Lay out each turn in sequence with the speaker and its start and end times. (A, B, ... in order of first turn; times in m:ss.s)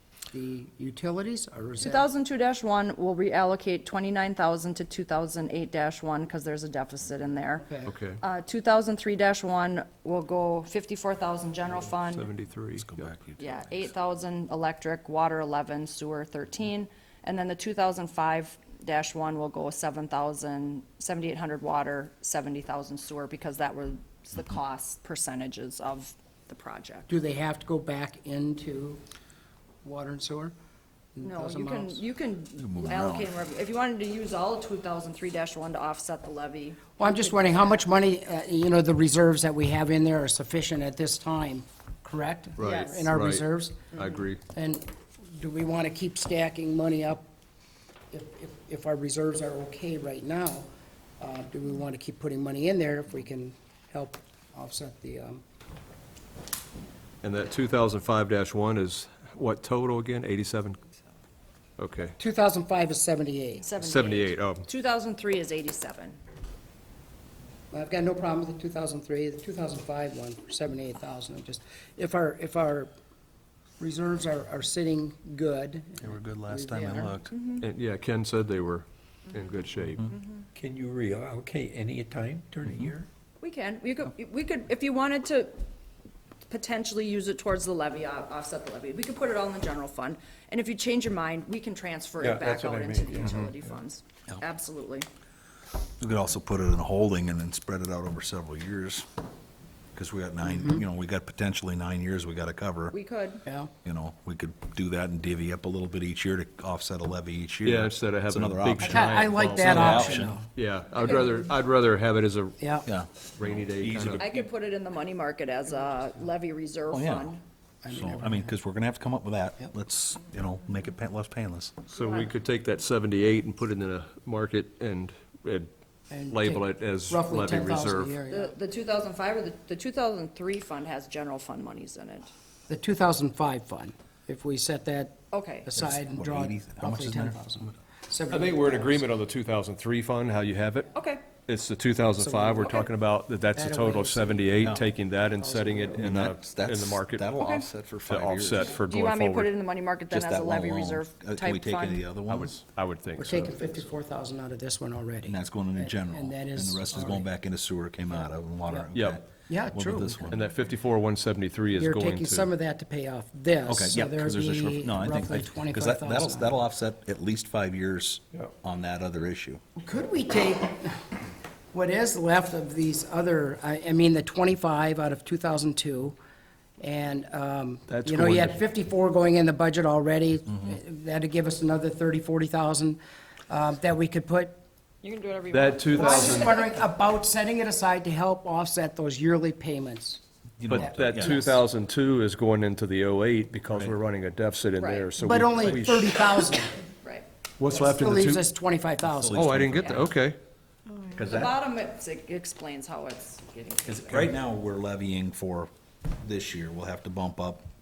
0:00.3-0:02.1 A
0:01.8-0:12.3 B
0:07.6-0:07.9 A
0:07.8-0:08.2 C
0:12.0-0:13.0 C
0:12.8-0:13.9 D
0:13.4-0:27.1 B
0:27.1-0:29.0 A
0:29.8-0:30.5 A
0:31.2-0:32.0 A
0:31.2-0:37.6 B
0:32.6-0:33.3 D
0:37.0-0:43.9 A
0:42.6-0:43.0 B
0:42.6-0:44.4 C
0:43.9-0:44.2 B
0:44.5-0:47.2 A
0:48.1-0:50.7 A
0:51.2-0:55.4 A
0:57.2-1:00.8 C
1:01.8-1:02.2 C
1:02.2-1:03.7 A
1:03.6-1:06.2 B
1:03.8-1:04.6 C
1:07.7-1:12.9 A
1:13.8-1:17.2 A
1:16.0-1:17.3 D
1:17.3-1:17.6 B
1:17.6-1:20.1 C
1:20.1-1:20.4 B
1:20.5-1:23.1 E
1:23.4-1:25.5 B
1:26.5-1:35.1 B
1:32.2-1:33.6 C
1:32.3-1:33.1 E
1:36.0-1:39.1 D
1:39.9-1:43.0 D
1:40.4-1:40.8 A
1:42.9-1:43.4 B
1:43.4-1:43.7 A
1:43.8-1:50.4 D
1:47.6-1:52.6 C
1:48.8-1:50.5 A
1:52.6-1:52.8 A
1:53.4-1:54.3 C
1:53.6-1:54.2 D
1:54.2-1:57.4 B
1:56.9-1:57.3 D
1:57.8-1:58.5 A
1:57.9-2:01.8 D
2:01.9-2:02.3 B
2:01.9-2:05.7 C
2:06.1-2:08.5 A
2:06.3-2:08.2 C
2:08.3-2:12.3 B
2:12.7-2:19.0 A
2:15.3-2:15.7 B
2:15.8-2:17.5 D
2:18.3-2:27.3 C
2:20.9-2:21.2 B
2:22.2-2:22.7 A
2:23.5-2:26.1 A
2:26.0-2:28.8 D
2:27.4-2:27.7 B
2:28.1-2:29.5 C
2:28.8-2:32.1 B
2:30.1-2:32.5 D
2:32.2-2:33.6 C
2:33.2-2:37.2 A
2:35.2-2:40.4 D
2:38.9-2:39.2 C
2:39.5-2:40.3 A
2:40.3-2:42.5 C
2:41.7-2:46.6 A
2:43.6-2:49.6 D
2:49.8-2:51.0 A
2:51.7-2:56.2 A
2:56.8-3:03.0 A
2:57.9-2:58.6 C
3:03.5-3:04.6 A
3:05.0-3:06.8 B
3:05.5-3:06.6 C
3:05.9-3:10.2 A
3:10.6-3:11.4 D
3:10.7-3:16.5 C
3:10.7-3:11.6 A
3:14.8-3:15.1 B
3:15.2-3:16.8 A
3:17.6-3:18.5 C
3:17.7-3:19.5 A
3:19.0-3:20.2 D
3:19.3-3:20.4 C
3:21.1-3:21.6 D
3:21.2-3:24.3 B
3:23.9-3:27.6 D